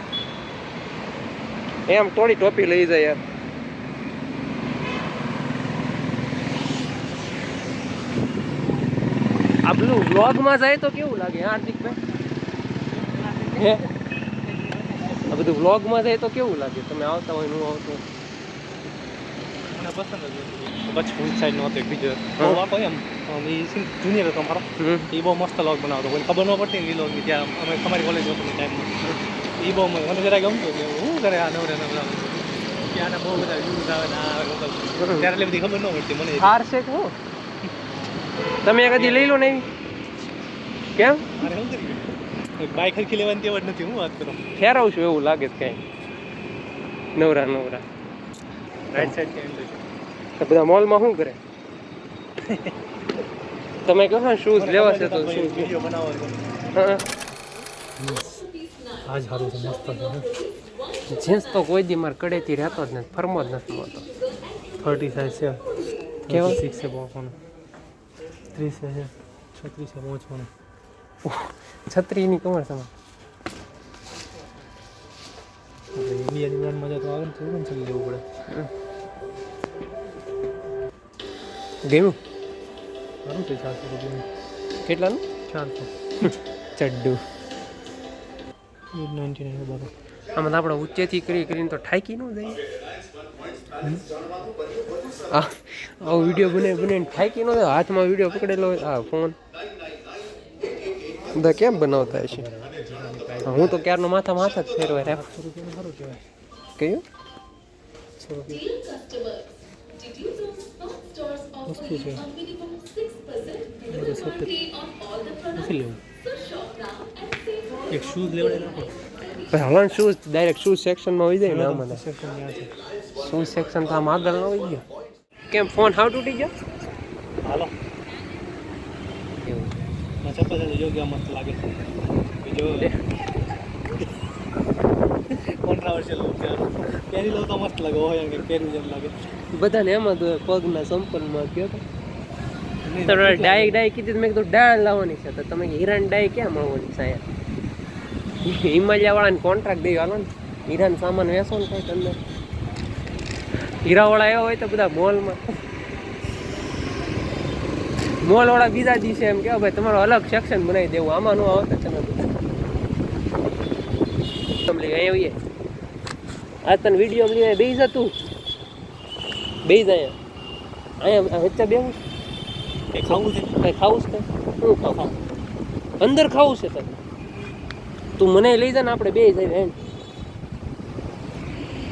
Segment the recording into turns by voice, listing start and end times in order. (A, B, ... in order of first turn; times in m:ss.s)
0:01.9-0:03.2 A
0:09.7-0:12.0 A
0:12.9-0:13.8 B
0:13.6-0:13.9 A
0:14.5-0:15.5 B
0:15.3-0:18.0 A
0:19.7-0:36.6 B
0:24.8-0:25.1 A
0:35.0-0:35.3 A
0:36.4-0:37.2 A
0:38.6-0:39.6 A
0:38.9-0:39.4 B
0:41.0-0:41.2 A
0:41.4-0:44.4 B
0:44.6-0:45.8 A
0:47.2-0:47.8 A
0:48.9-0:49.8 B
0:50.4-0:51.4 A
0:52.5-0:52.7 B
0:53.8-0:55.7 A
0:54.6-0:56.4 B
0:56.8-0:57.0 A
0:58.0-0:58.4 B
0:59.1-1:00.3 B
1:01.1-1:04.0 A
1:04.8-1:05.6 B
1:06.3-1:07.4 B
1:06.3-1:06.6 A
1:08.5-1:10.5 B
1:11.2-1:12.9 A
1:15.9-1:18.2 B
1:21.9-1:22.2 A
1:23.2-1:24.2 B
1:24.8-1:25.2 A
1:25.5-1:25.9 B
1:26.2-1:27.2 A
1:28.9-1:29.9 B
1:30.4-1:32.6 A
1:35.3-1:39.4 A
1:41.4-1:42.5 A
1:42.0-1:43.8 B
1:43.4-1:45.2 A
1:45.0-1:46.2 B
1:46.8-1:47.0 A
1:48.2-1:48.7 B
1:51.6-1:52.3 B
1:53.9-1:54.6 B
1:55.5-1:56.0 B
1:57.9-1:58.9 B
1:59.5-2:02.0 A
2:01.4-2:02.7 B
2:03.2-2:04.8 A
2:05.5-2:06.5 A
2:07.4-2:07.7 B
2:09.4-2:09.7 A
2:10.2-2:11.7 B
2:12.4-2:12.9 B
2:15.3-2:19.1 B
2:19.5-2:21.8 A
2:22.8-2:23.8 B
2:23.1-2:27.2 A
2:28.4-2:32.2 A
2:33.8-2:35.4 A
2:38.2-2:42.3 A
2:44.6-2:45.4 A
2:46.6-2:48.1 A
2:49.7-2:50.1 A
2:51.0-2:52.0 A
2:52.9-2:53.6 B
2:53.6-2:55.0 A
2:54.8-2:55.2 B
2:56.0-2:56.9 A
2:58.2-2:59.8 A